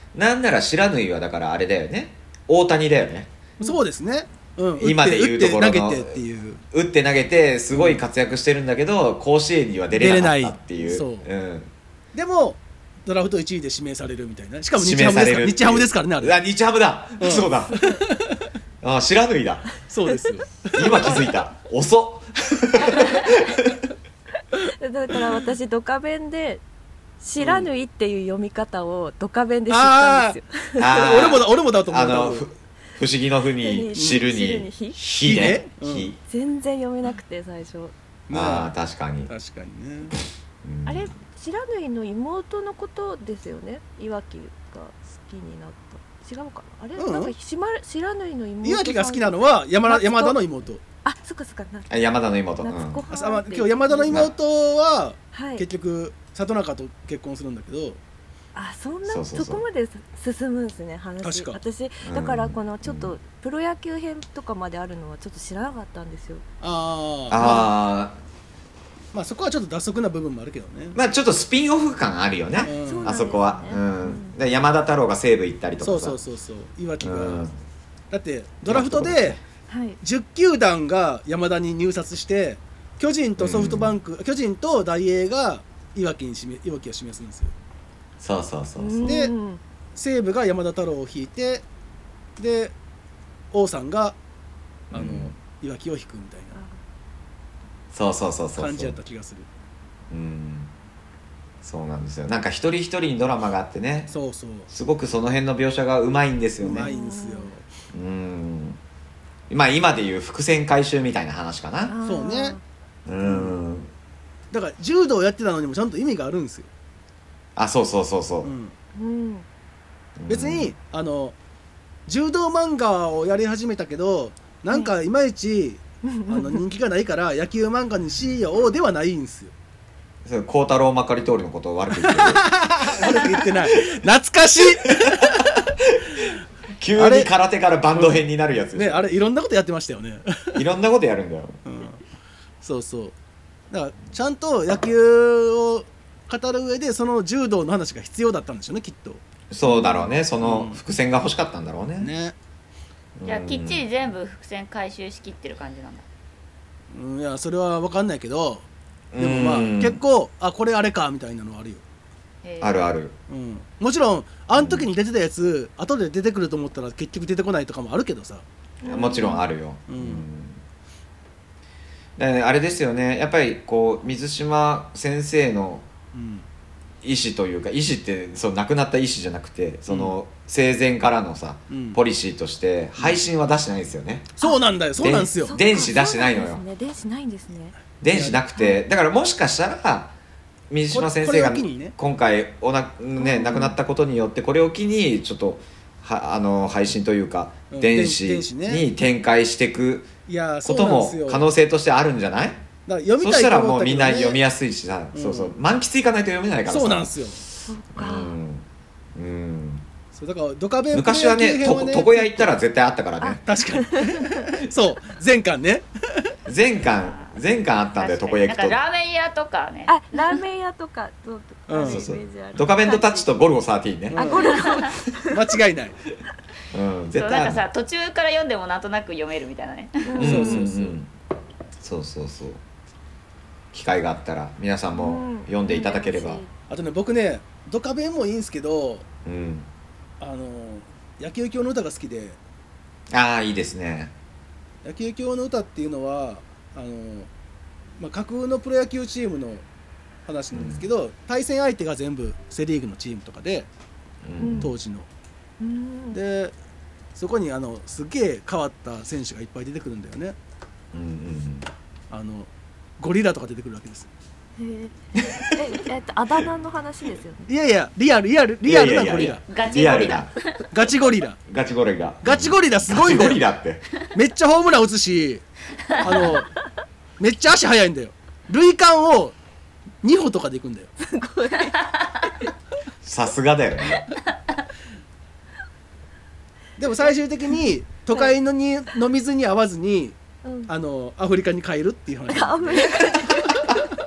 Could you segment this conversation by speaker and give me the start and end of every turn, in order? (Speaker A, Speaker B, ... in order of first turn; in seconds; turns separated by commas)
Speaker A: 0.1-3.3, Speaker B: 3.6-6.6, Speaker A: 4.8-6.2, Speaker A: 6.7-11.7, Speaker B: 7.7-8.0, Speaker B: 9.9-11.3, Speaker B: 12.1-16.4, Speaker A: 14.7-17.8, Speaker B: 17.2-18.4, Speaker A: 18.8-19.7, Speaker B: 19.9-21.3, Speaker A: 20.7-23.8, Speaker C: 24.6-26.6, Speaker C: 27.2-31.0, Speaker B: 27.4-27.7, Speaker B: 29.7-30.4, Speaker A: 30.8-36.2, Speaker B: 30.9-32.5, Speaker C: 33.6-35.0, Speaker B: 33.9-34.2, Speaker B: 35.2-36.1, Speaker C: 36.3-37.9, Speaker B: 38.3-38.7, Speaker A: 38.3-39.3, Speaker B: 39.3-40.1, Speaker A: 40.6-41.1, Speaker C: 40.9-50.4, Speaker B: 47.0-47.3, Speaker B: 48.6-50.8, Speaker C: 51.0-52.0, Speaker A: 51.9-53.0, Speaker C: 52.6-54.2, Speaker B: 53.1-58.0, Speaker A: 54.1-54.3, Speaker C: 55.3-55.6, Speaker C: 58.5-66.4, Speaker A: 59.0-59.6, Speaker B: 61.2-61.6, Speaker A: 62.0-63.1, Speaker B: 66.6-67.6, Speaker A: 67.3-68.2, Speaker C: 67.3-67.7, Speaker B: 69.1-71.0, Speaker A: 70.9-76.2, Speaker C: 72.5-74.3, Speaker B: 72.6-73.2, Speaker B: 75.8-77.5, Speaker A: 77.0-77.6, Speaker B: 78.1-79.4, Speaker A: 78.7-79.4, Speaker C: 79.7-80.0, Speaker B: 80.0-87.5, Speaker A: 83.4-84.0, Speaker A: 88.2-89.2, Speaker C: 88.8-89.6, Speaker B: 89.0-89.3, Speaker B: 89.9-91.6, Speaker B: 92.4-92.7, Speaker B: 93.5-94.2, Speaker B: 94.9-96.6, Speaker A: 94.9-95.3, Speaker C: 96.5-96.8, Speaker A: 97.9-99.0, Speaker B: 98.5-99.5, Speaker A: 100.1-100.7, Speaker A: 101.6-104.1, Speaker B: 104.1-104.7, Speaker A: 104.7-106.9, Speaker B: 106.6-107.6, Speaker C: 106.8-107.5, Speaker A: 107.9-108.8, Speaker A: 109.5-112.0, Speaker C: 111.9-112.6, Speaker B: 112.0-112.6, Speaker A: 113.0-113.9, Speaker B: 113.2-113.6, Speaker B: 114.5-116.7, Speaker A: 117.5-118.5, Speaker B: 118.4-118.8, Speaker C: 118.9-119.5, Speaker A: 120.2-120.7, Speaker B: 120.3-121.3, Speaker B: 122.1-129.5, Speaker C: 126.0-126.6, Speaker A: 130.2-133.9, Speaker B: 132.0-135.7, Speaker A: 134.8-136.3, Speaker A: 136.8-139.0, Speaker B: 136.9-137.3, Speaker B: 137.9-140.6, Speaker A: 140.5-141.6, Speaker B: 141.6-142.0, Speaker B: 142.6-143.1, Speaker B: 143.7-149.2, Speaker A: 149.5-152.1, Speaker C: 149.7-150.1, Speaker B: 150.4-150.8, Speaker B: 152.0-152.3, Speaker A: 153.2-153.8, Speaker D: 153.2-156.0, Speaker B: 156.9-158.7, Speaker A: 159.1-160.0, Speaker B: 159.2-161.8, Speaker D: 162.4-162.9, Speaker A: 162.6-163.1, Speaker B: 163.3-168.4, Speaker A: 164.5-164.9, Speaker C: 168.8-169.4, Speaker A: 168.8-170.6, Speaker B: 169.9-170.2, Speaker A: 172.2-175.9, Speaker B: 176.1-176.5, Speaker A: 177.0-184.3, Speaker B: 179.9-180.2, Speaker B: 181.7-182.0, Speaker B: 183.0-183.2, Speaker B: 184.4-185.6, Speaker A: 185.0-186.6, Speaker C: 185.4-187.7, Speaker A: 188.0-190.1, Speaker B: 188.1-188.4, Speaker C: 188.5-188.8, Speaker A: 190.7-200.1, Speaker B: 190.9-191.9, Speaker C: 193.2-193.8, Speaker B: 197.7-198.8, Speaker B: 200.3-201.4, Speaker A: 200.6-202.7, Speaker B: 202.8-204.4, Speaker A: 203.2-207.1, Speaker B: 205.1-205.5, Speaker B: 206.7-207.4, Speaker C: 207.6-208.3, Speaker A: 207.9-209.8, Speaker B: 210.1-212.5, Speaker A: 210.9-213.4, Speaker C: 213.2-214.4, Speaker B: 213.4-216.3, Speaker A: 216.4-218.8, Speaker D: 216.8-217.4, Speaker D: 217.9-220.3, Speaker C: 219.9-223.3, Speaker B: 221.7-222.0, Speaker A: 221.8-224.2, Speaker B: 224.1-224.7, Speaker C: 224.1-225.4, Speaker B: 225.3-226.0, Speaker A: 226.7-227.7, Speaker D: 227.1-230.2, Speaker C: 230.0-230.6, Speaker A: 230.2-231.1, Speaker B: 230.2-230.9, Speaker A: 231.8-232.6, Speaker A: 233.7-236.4, Speaker C: 234.9-236.5, Speaker B: 236.7-239.1, Speaker A: 239.2-239.7, Speaker B: 240.2-242.4, Speaker A: 243.1-244.1, Speaker B: 244.8-247.3, Speaker B: 248.0-249.6, Speaker B: 250.2-253.7, Speaker A: 250.5-250.9, Speaker A: 254.2-254.7, Speaker C: 254.4-254.7, Speaker B: 254.6-255.1, Speaker C: 255.6-256.2, Speaker B: 256.1-256.5, Speaker B: 257.1-260.4, Speaker A: 260.9-261.7, Speaker B: 262.1-264.1, Speaker C: 264.6-267.5, Speaker A: 265.2-265.6, Speaker B: 267.5-269.4, Speaker A: 268.6-270.3, Speaker D: 269.5-270.6, Speaker B: 270.7-271.4, Speaker A: 271.5-273.8, Speaker B: 272.2-273.4, Speaker B: 274.1-275.4, Speaker B: 276.0-276.5, Speaker C: 276.1-276.4, Speaker B: 277.2-279.3, Speaker B: 280.0-280.9, Speaker C: 281.0-282.5, Speaker A: 283.0-284.0, Speaker B: 286.8-293.8, Speaker C: 290.4-290.7, Speaker C: 292.3-293.7